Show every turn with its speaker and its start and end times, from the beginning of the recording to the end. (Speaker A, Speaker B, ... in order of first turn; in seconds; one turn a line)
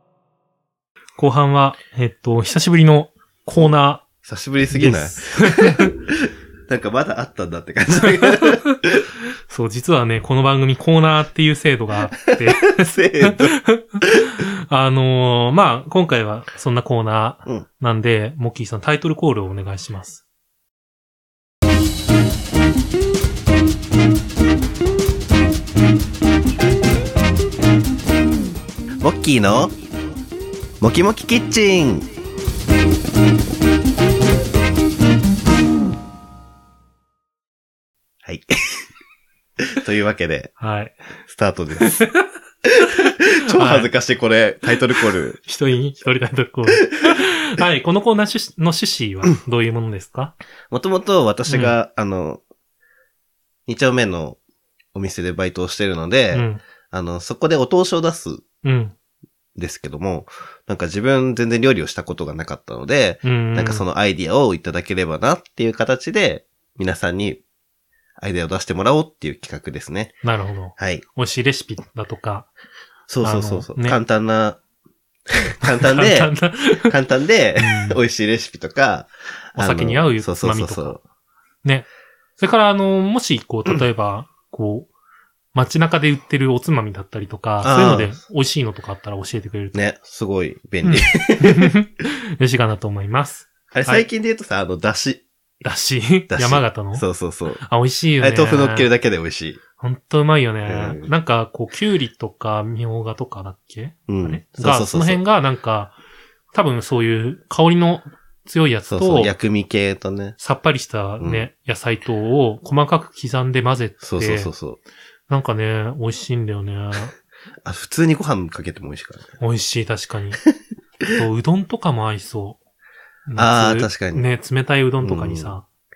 Speaker A: 1.2-4.0
Speaker B: 4.2-6.1
Speaker A: 4.7-5.9
Speaker B: 6.7-9.0
Speaker A: 8.0-8.8
Speaker A: 9.5-20.2
Speaker B: 12.3-13.6
Speaker B: 29.0-29.7
Speaker B: 30.8-32.1
Speaker B: 38.2-38.9
Speaker B: 39.8-40.5
Speaker A: 40.6-41.0
Speaker B: 41.2-42.0
Speaker A: 41.8-42.3
Speaker B: 42.7-45.4
Speaker A: 43.1-43.9
Speaker A: 45.4-50.4
Speaker B: 50.7-52.4
Speaker A: 51.5-51.8
Speaker B: 53.7-54.4
Speaker B: 54.9-58.4
Speaker A: 56.3-56.6
Speaker A: 58.6-58.9
Speaker B: 59.6-67.4
Speaker A: 63.2-63.9
Speaker B: 68.2-70.1
Speaker A: 70.2-72.5
Speaker B: 70.8-71.0
Speaker B: 73.1-74.6
Speaker A: 73.2-74.0
Speaker B: 75.3-76.3
Speaker A: 75.8-77.0
Speaker B: 76.9-81.0
Speaker A: 77.6-78.0
Speaker A: 79.6-81.0
Speaker A: 81.6-84.9
Speaker A: 85.5-89.9
Speaker B: 87.6-88.2
Speaker B: 89.7-91.7
Speaker A: 90.8-94.1
Speaker B: 93.7-95.3
Speaker A: 95.6-97.0
Speaker B: 96.3-97.6
Speaker A: 97.6-98.9
Speaker B: 98.2-99.6
Speaker A: 99.8-105.9
Speaker B: 100.7-101.1
Speaker B: 104.1-105.2
Speaker A: 106.5-109.3
Speaker B: 108.9-110.4
Speaker A: 110.4-114.5
Speaker B: 111.2-111.5
Speaker B: 114.0-114.8
Speaker A: 115.3-117.1
Speaker B: 117.7-119.3
Speaker A: 119.4-120.4
Speaker A: 121.1-122.6
Speaker A: 123.3-125.7
Speaker B: 123.4-124.2
Speaker B: 125.0-125.6